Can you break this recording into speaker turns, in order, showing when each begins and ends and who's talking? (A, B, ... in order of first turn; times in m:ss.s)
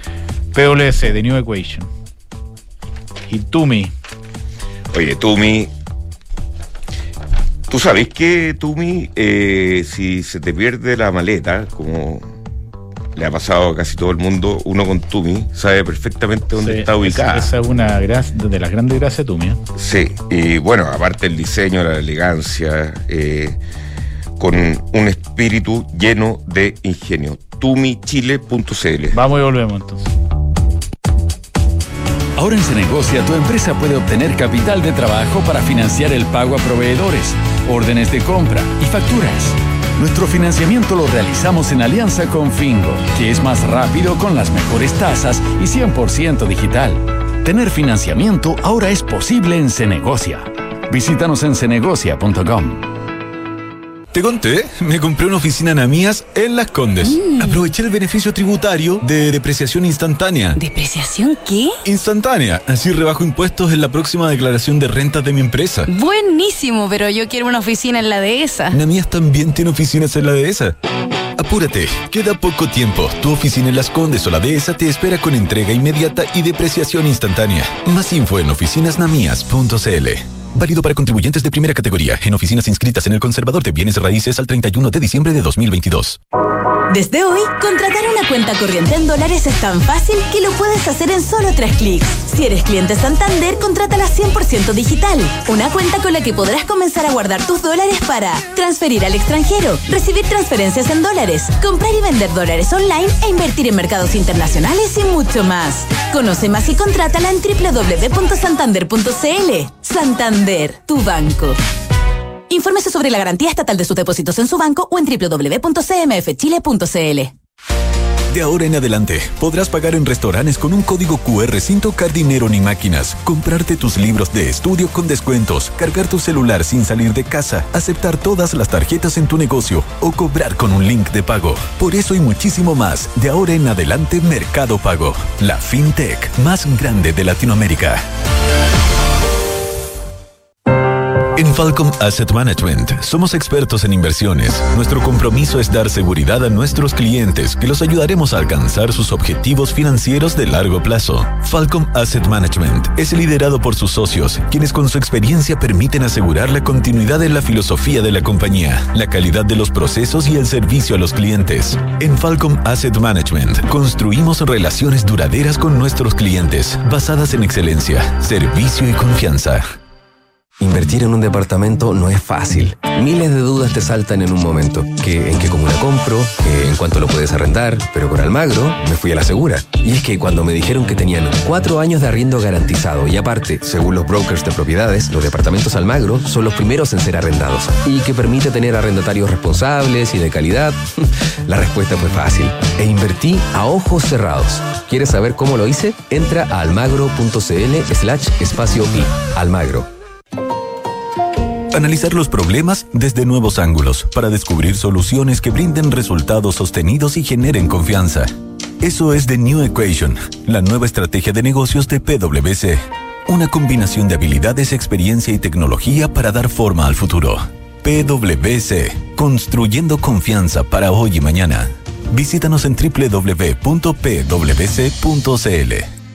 0:00.5-0:01.9 A
0:03.3-0:03.9 A
0:04.9-0:05.7 B
0:07.7-0:12.3 B
0:13.1-0:17.5 B
0:16.6-0:19.6 A
0:19.7-0:23.6 B
0:24.4-0:29.2 B
0:29.1-0:30.1 A
0:32.4-0:52.9 C
0:54.1-1:00.6 D
0:57.0-0:57.6 E
1:00.5-1:01.8 E
1:01.8-1:05.9 D
1:05.9-1:08.8 E
1:08.7-1:10.7 D
1:11.4-1:26.2 D
1:26.9-1:51.6 F
1:52.5-1:57.3 F
1:58.3-2:18.0 D
2:21.3-2:49.8 D
2:50.6-3:10.9 G
3:11.5-3:19.9 G
3:21.7-3:45.9 D